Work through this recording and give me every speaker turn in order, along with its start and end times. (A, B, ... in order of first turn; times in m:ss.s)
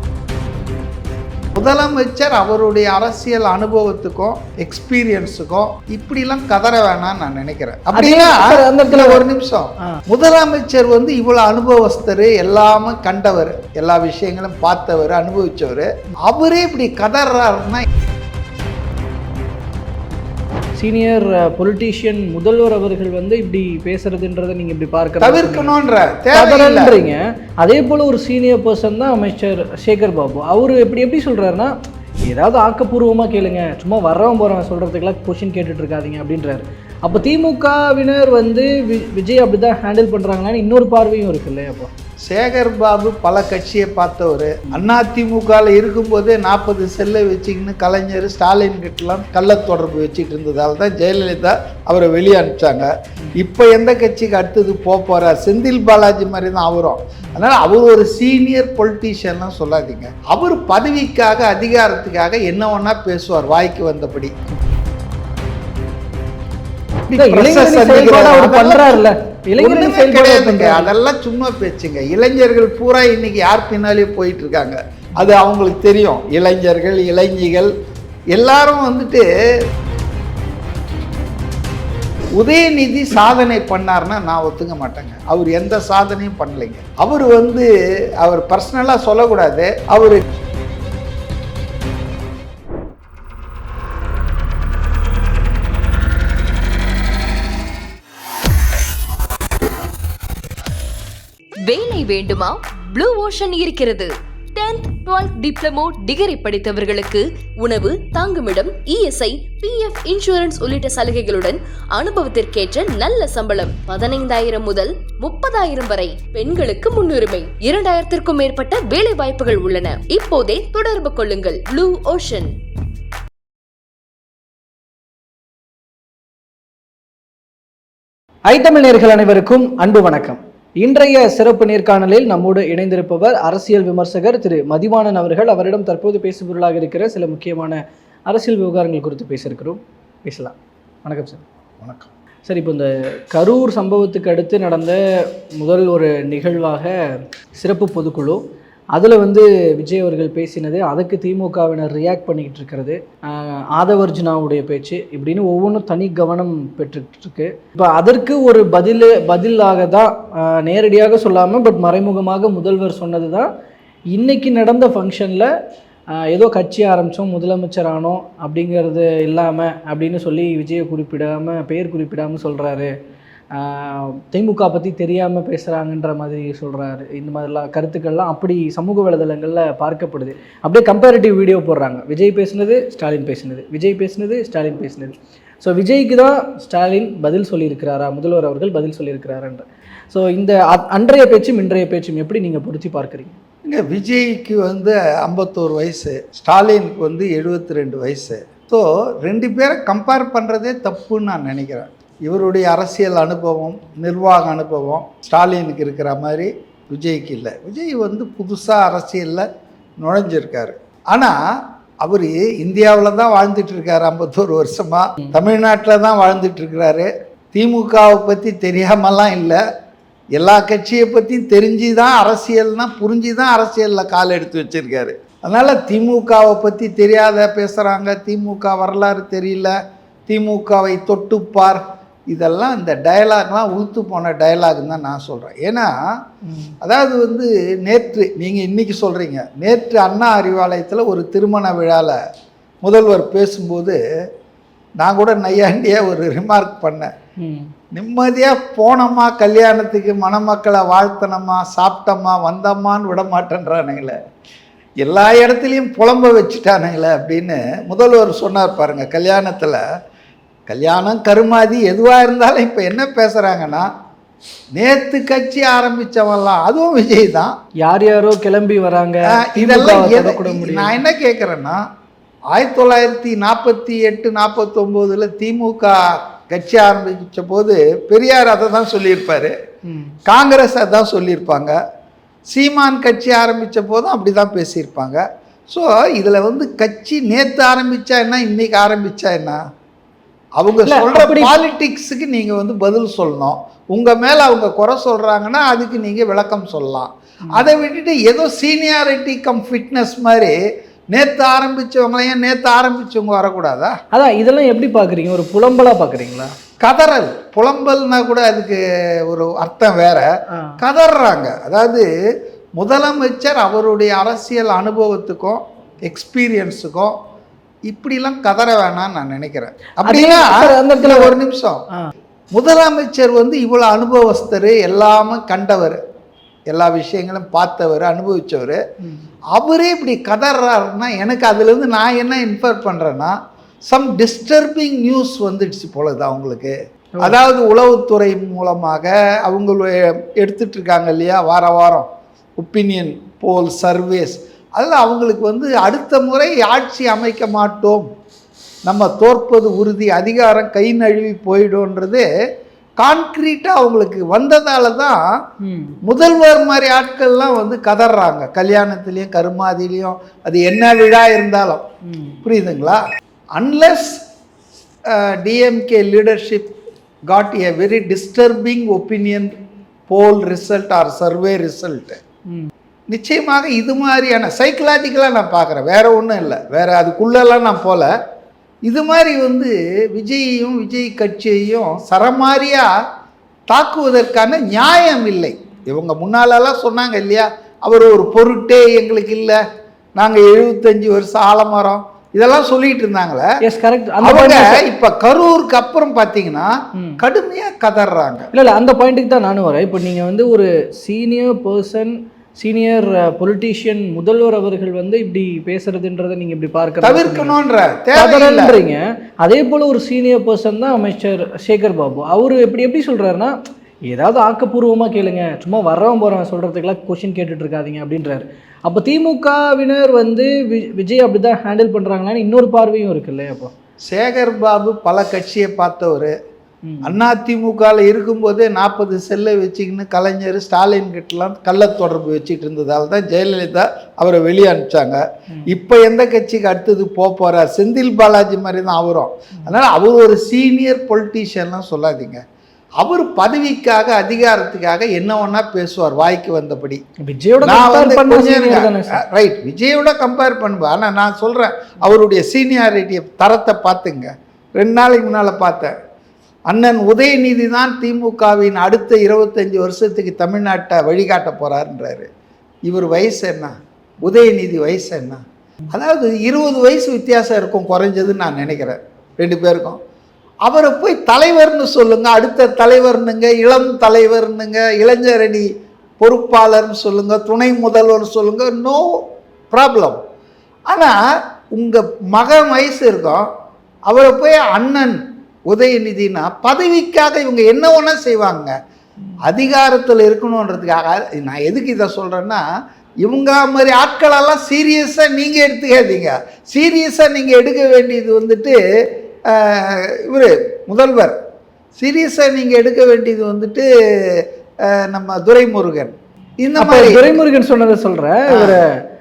0:01.6-0:17.9 A
0:07.9-0:09.2 B
0:20.8-0:25.8 B
0:25.2-0:27.0 A
0:26.3-0:31.7 B
0:32.2-0:41.9 B
0:42.3-1:04.4 A
1:07.1-1:09.0 A
1:07.2-1:10.9 B
1:09.6-1:17.7 A
1:18.3-1:19.2 A
1:22.4-1:27.7 A
1:28.2-1:30.2 A
1:41.6-2:02.5 C
2:08.5-2:21.4 B
2:21.8-2:22.1 A
2:22.5-2:27.0 B
2:27.6-2:28.4 B
2:28.9-2:43.5 B
2:44.1-2:45.5 B
2:46.2-2:52.9 B
2:53.5-3:13.4 B
3:13.6-3:29.5 A
3:30.0-3:31.4 A
3:32.0-3:39.6 A
3:40.4-3:49.8 A
3:50.3-3:56.0 A
3:56.4-3:56.7 B
3:56.8-4:02.2 A
4:02.8-4:04.0 A
4:05.0-4:07.1 A
4:07.4-4:07.7 B
4:07.9-4:14.2 A
4:15.0-4:19.8 A
4:20.7-4:23.9 A
4:24.8-4:27.5 A
4:27.8-4:31.0 B
4:29.3-4:31.8 A
4:32.5-4:39.6 A
4:39.9-4:40.2 B
4:40.3-4:41.8 A
4:42.5-4:49.6 A
4:50.6-5:00.6 A
4:50.8-4:51.5 B
5:01.1-5:04.0 A
5:04.1-5:06.5 B
5:06.8-5:12.1 A
5:12.8-5:17.2 A
5:17.9-5:21.8 A
5:20.0-5:21.4 B
5:22.5-5:26.0 A
5:26.7-5:28.8 A
5:29.6-5:33.4 A
5:33.9-5:42.1 A
5:42.6-5:48.1 A
5:48.9-5:52.3 A
5:53.0-5:55.2 A
5:55.6-5:56.0 B
5:56.0-6:01.8 A
6:02.0-6:02.4 B
6:02.4-6:03.0 A
6:03.6-6:04.2 A
6:05.1-6:06.7 A
6:07.3-6:09.6 A
6:10.1-6:12.2 A
6:13.1-6:18.1 A
6:18.9-6:22.9 A
6:23.7-6:29.6 A
6:30.2-6:33.5 A
6:33.6-6:34.8 B
6:34.2-6:38.5 A
6:38.5-6:47.6 B
6:47.0-6:48.8 A
6:48.1-6:53.5 B
6:54.1-7:03.7 B
7:04.1-7:06.3 A
7:06.9-7:07.2 B
7:07.0-7:22.4 A
7:23.0-7:27.0 A
7:27.2-7:29.2 B
7:27.6-7:36.0 A
7:36.7-7:42.3 A
7:42.9-7:50.0 A
7:50.6-7:55.7 A
7:56.2-8:00.2 A
8:00.9-8:01.2 A
8:01.7-8:03.5 A
8:04.1-8:08.7 A
8:09.4-8:12.6 A
8:13.2-8:18.8 A
8:19.5-8:21.4 A
8:22.0-8:27.3 A
8:26.8-8:29.0 B
8:28.5-8:28.8 A